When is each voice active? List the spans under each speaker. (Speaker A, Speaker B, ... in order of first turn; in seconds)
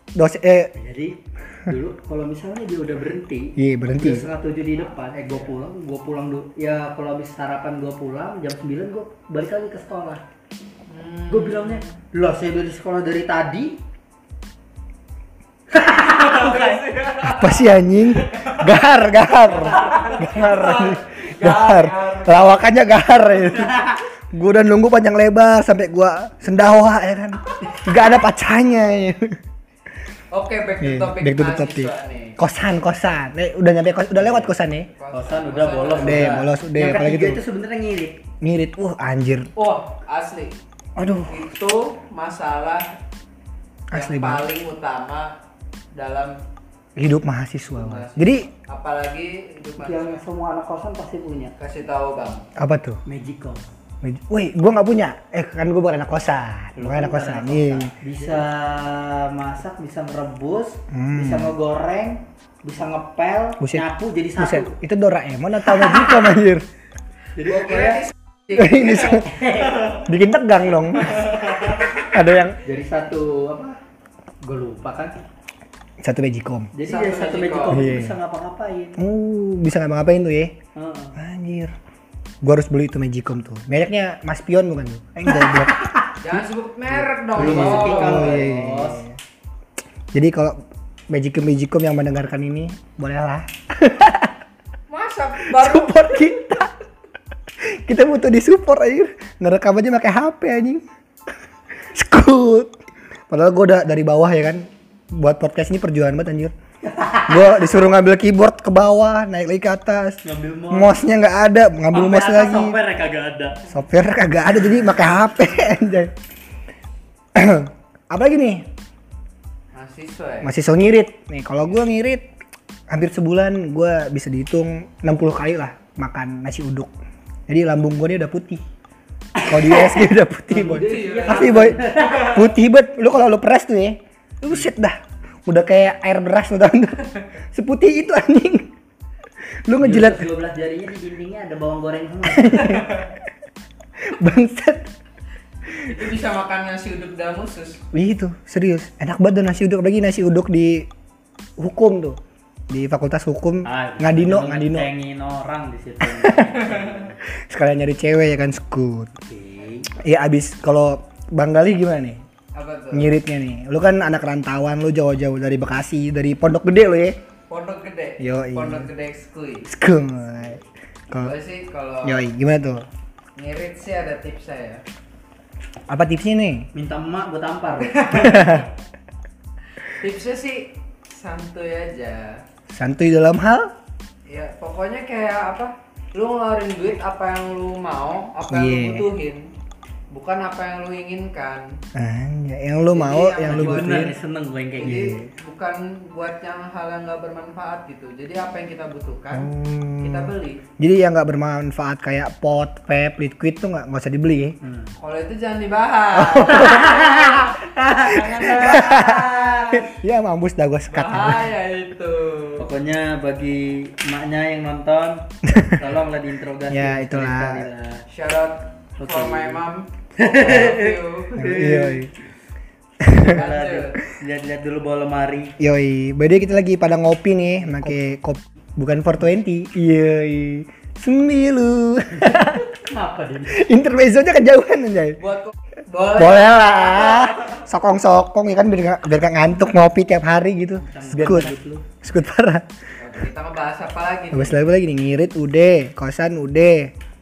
Speaker A: 0.1-0.7, 3.6-4.3, 17.2-29.4, 30.8-34.9, 36.0-37.4, 38.4-39.5, 41.0-41.5, 43.9-44.5, 47.0-48.5, 52.6-53.0, 54.0-57.9, 60.9-61.5, 63.6-66.7, 68.5-69.3, 69.8-72.6, 76.0-76.7, 77.7-78.2, 79.0-80.6, 81.2-81.7, 82.4-85.8, 87.0-89.1, 90.1-90.6, 91.1-94.3, 95.5-96.7, 97.6-100.8, 101.8-102.8, 103.3-106.5, 107.2-112.8, 113.7-116.1, 117.3-118.7, 120.4-122.3, 122.9-126.9, 127.5-128.6, 129.4-138.7, 139.7-140.3, 142.3-143.1, 144.1-144.9, 147.9-150.9, 151.6-152.2, 152.7-154.9, 156.0-156.7, 157.2-159.1, 160.0-162.2, 162.9-167.2, 168.2-168.9, 169.7-171.4, 172.0-172.9, 175.9-176.7, 178.1-178.7, 182.7-183.7, 188.5-189.1, 191.9-194.2, 194.8-195.3, 199.3-204.6, 206.1-207.0, 208.3-211.5, 216.7-217.7, 221.3-222.1, 223.0-223.4, 225.6-232.7, 233.5-235.2, 236.2-242.7, 244.3-246.9
Speaker B: 0.8-10.2, 11.3-13.8, 15.8-16.8, 34.2-34.5, 35.1-38.2, 49.8-51.5, 53.0-53.6, 56.8-64.8, 65.8-66.2, 67.4-68.1, 69.2-70.0, 72.6-73.8, 74.4-75.2, 76.7-79.0, 80.8-81.2, 85.3-86.0, 87.4-89.0, 106.9-107.5, 110.2-111.0, 111.9-113.7, 129.4-132.5, 139.8-142.8, 153.6-157.2, 159.3-159.9, 176.7-178.1, 193.5-195.1, 204.6-204.9, 206.9-209.8, 212.6-218.0, 219.0-219.6, 220.2-222.1, 223.2-225.5, 227.6-227.9, 232.4-233.6, 240.8-241.9
Speaker C: 10.9-11.9, 15.8-17.7, 19.7-22.5, 30.3-32.4, 35.0-36.5, 39.6-40.5, 41.3-42.9, 43.9-45.3, 45.9-46.4, 47.7-50.2, 51.6-52.5, 76.8-77.9, 86.2-88.5, 94.9-96.4, 119.7-120.5, 130.7-131.7, 145.8-147.8, 162.6-163.1, 167.5-169.7, 171.2-172.3, 173.4-174.8, 177.8-178.6, 180.0-182.4, 184.3-189.5, 190.1-191.7, 192.9-194.0, 194.8-199.5, 200.0-200.6, 205.0-209.3, 210.9-212.7, 218.1-221.6, 223.2-224.0, 235.2-237.4, 243.0-244.7